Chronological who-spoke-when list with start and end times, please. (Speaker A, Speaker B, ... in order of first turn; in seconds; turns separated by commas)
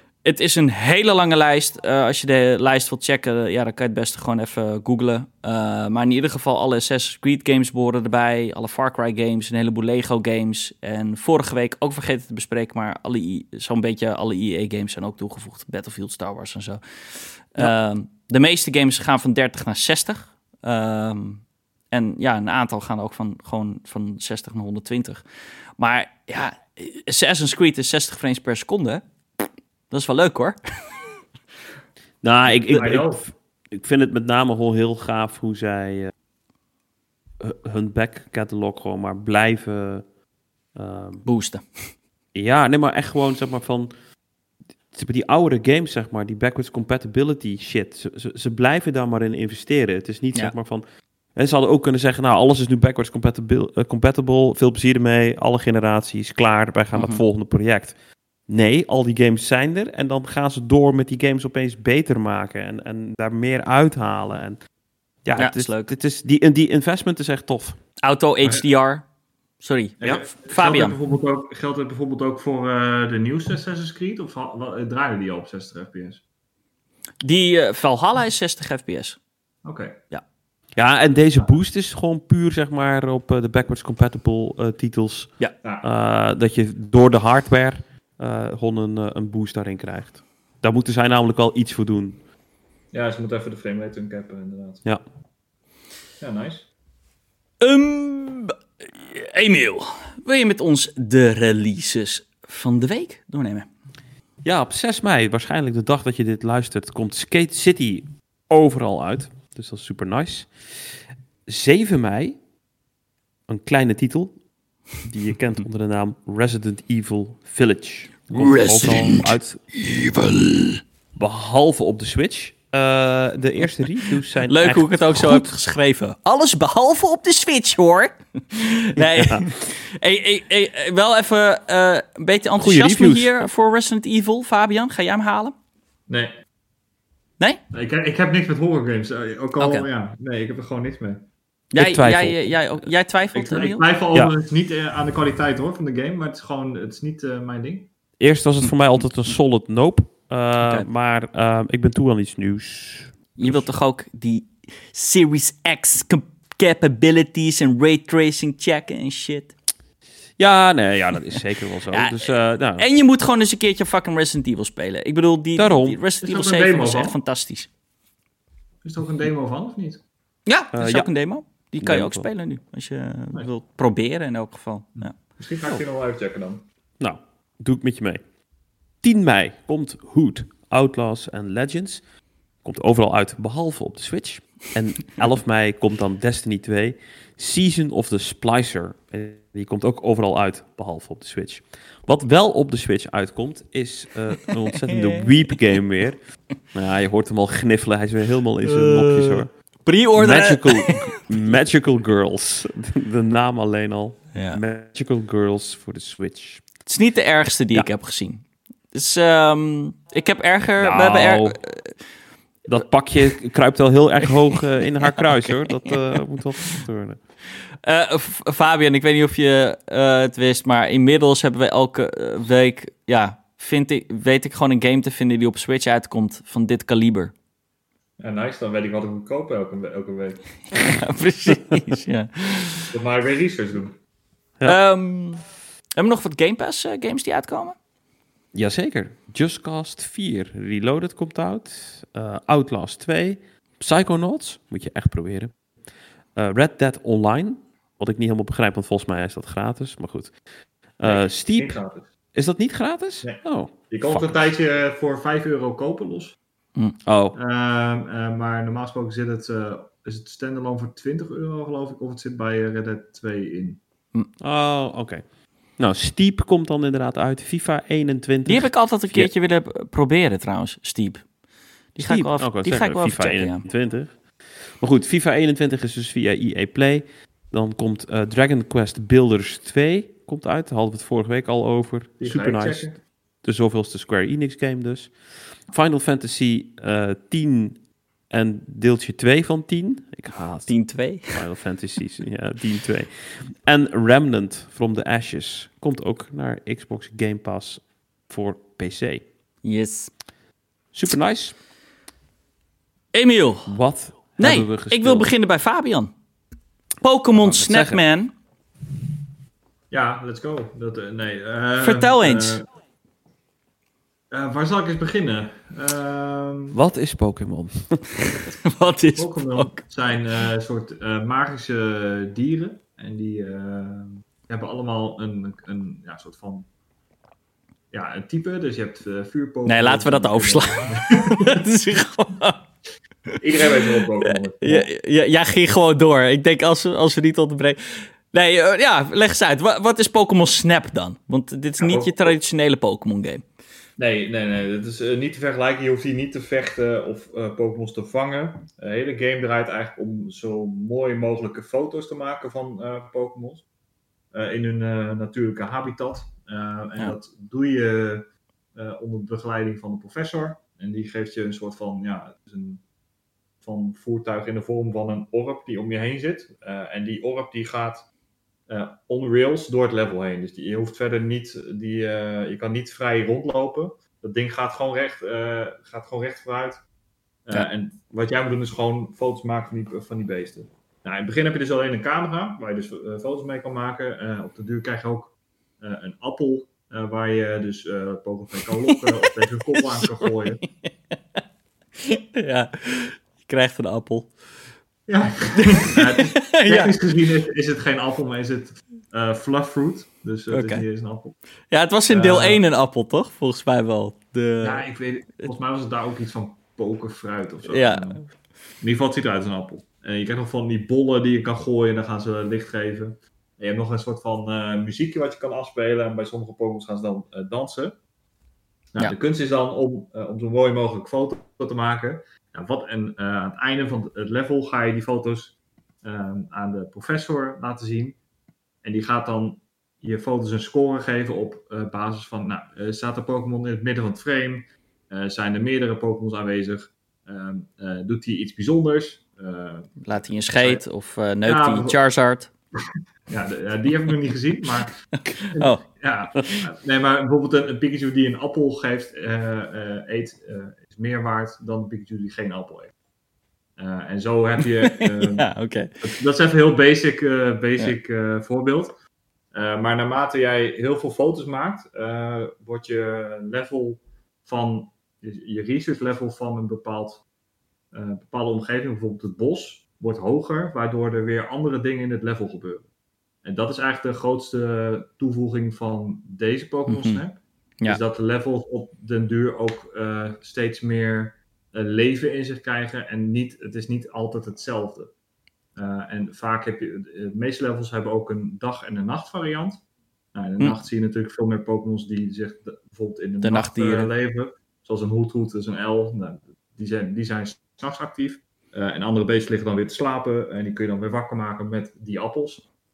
Speaker A: 0.2-25.2, Speaker A: 25.8-31.1, Speaker B: 32.2-36.1, Speaker C: 32.7-33.3, Speaker B: 37.4-40.0, Speaker B: 40.7-41.2, Speaker A: 41.2-41.9, Speaker B: 42.3-43.9, Speaker B: 44.9-50.8, Speaker B: 51.3-58.0, Speaker A: 56.9-57.2, Speaker B: 58.5-64.6, Speaker B: 65.2-67.8, Speaker A: 65.4-65.9, Speaker A: 68.0-69.0, Speaker A: 69.6-71.0, Speaker C: 70.0-76.2, Speaker A: 77.2-79.2, Speaker C: 79.6-80.0, Speaker B: 80.7-92.2, Speaker C: 92.9-94.8, Speaker C: 96.2-96.7, Speaker A: 97.6-103.7, Speaker B: 104.4-112.4, Speaker B: 113.5-114.3, Speaker B: 115.0-119.8, Speaker A: 118.3-119.2, Speaker A: 120.1-120.4, Speaker B: 121.2-125.5, Speaker A: 124.5-135.5, Speaker B: 128.9-129.5, Speaker B: 132.6-133.5, Speaker C: 136.1-136.3, Speaker C: 137.7-141.3, Speaker A: 139.6-139.9, Speaker A: 141.7-143.8, Speaker B: 141.8-142.5, Speaker C: 143.3-147.9, Speaker B: 148.2-153.7, Speaker A: 153.4-159.5, Speaker B: 160.4-162.8, Speaker A: 161.9-167.7, Speaker B: 165.6-166.0, Speaker C: 166.2-167.2, Speaker C: 168.8-170.0, Speaker A: 170.5-175.2, Speaker B: 170.7-171.1, Speaker B: 171.8-172.3, Speaker C: 175.1-176.6, Speaker B: 177.0-178.2, Speaker B: 179.0-182.0, Speaker B: 182.6-199.5, Speaker A: 194.9-195.2, Speaker A: 198.6-201.2, Speaker B: 200.2-206.8, Speaker A: 204.3-204.6, Speaker A: 206.8-212.0, Speaker B: 210.8-211.6, Speaker B: 212.7-217.2, Speaker A: 217.8-227.3, Speaker C: 228.2-230.9, Speaker A: 230.7-232.9, Speaker C: 232.9-233.9, Speaker A: 234.6-235.4, Speaker A: 236.0-237.8, Speaker B: 238.5-245.5, Speaker B: 246.3-250.4, Speaker B: 251.0-251.8, Speaker C: 251.0-252.1, Speaker B: 252.3-254.5, Speaker C: 253.2-256.4, Speaker B: 257.0-257.3, Speaker C: 257.3-263.8, Speaker B: 264.4-265.2, Speaker B: 265.8-269.3, Speaker A: 268.4-271.3, Speaker A: 271.9-273.7, Speaker B: 272.0-299.3, Speaker C: 282.2-283.0, Speaker A: 290.7-291.4, Speaker A: 299.6-300.1, Speaker B: 300.9-301.6, Speaker A: 303.1-303.8, Speaker B: 303.7-305.3, Speaker A: 304.4-306.1, Speaker A: 307.0-308.3, Speaker B: 307.3-308.0, Speaker C: 309.9-312.6, Speaker A: 311.8-312.6, Speaker C: 314.3-316.8, Speaker B: 316.7-318.2, Speaker A: 318.6-319.8, Speaker C: 319.1-326.6, Speaker C: 327.9-331.6, Speaker A: 329.6-332.6, Speaker C: 333.4-334.9, Speaker A: 334.2-343.4, Speaker C: 341.8-342.4, Speaker C: 344.0-353.6, Speaker C: 354.3-362.8, Speaker C: 363.6-368.1, Speaker C: 368.7-376.8, Speaker C: 377.5-390.6, Speaker A: 388.9-390.3, Speaker A: 390.8-391.1, Speaker A: 392.0-394.3, Speaker C: 395.1-401.4, Speaker A: 395.6-396.9, Speaker A: 400.5-400.8, Speaker A: 401.7-404.8, Speaker C: 402.1-402.6, Speaker C: 404.6-408.2, Speaker A: 407.6-408.2, Speaker C: 408.8-417.9, Speaker C: 418.9-428.2, Speaker C: 428.8-440.8, Speaker A: 440.0-442.5, Speaker C: 441.4-442.0, Speaker C: 443.3-445.0, Speaker A: 445.3-445.8, Speaker C: 445.5-452.9, Speaker C: 453.8-455.5, Speaker A: 454.8-456.0, Speaker C: 456.0-458.9, Speaker C: 459.5-467.2, Speaker C: 467.9-472.8, Speaker C: 473.4-485.1, Speaker A: 476.9-477.2, Speaker C: 485.8-489.8, Speaker C: 490.3-502.7, Speaker A: 493.4-494.1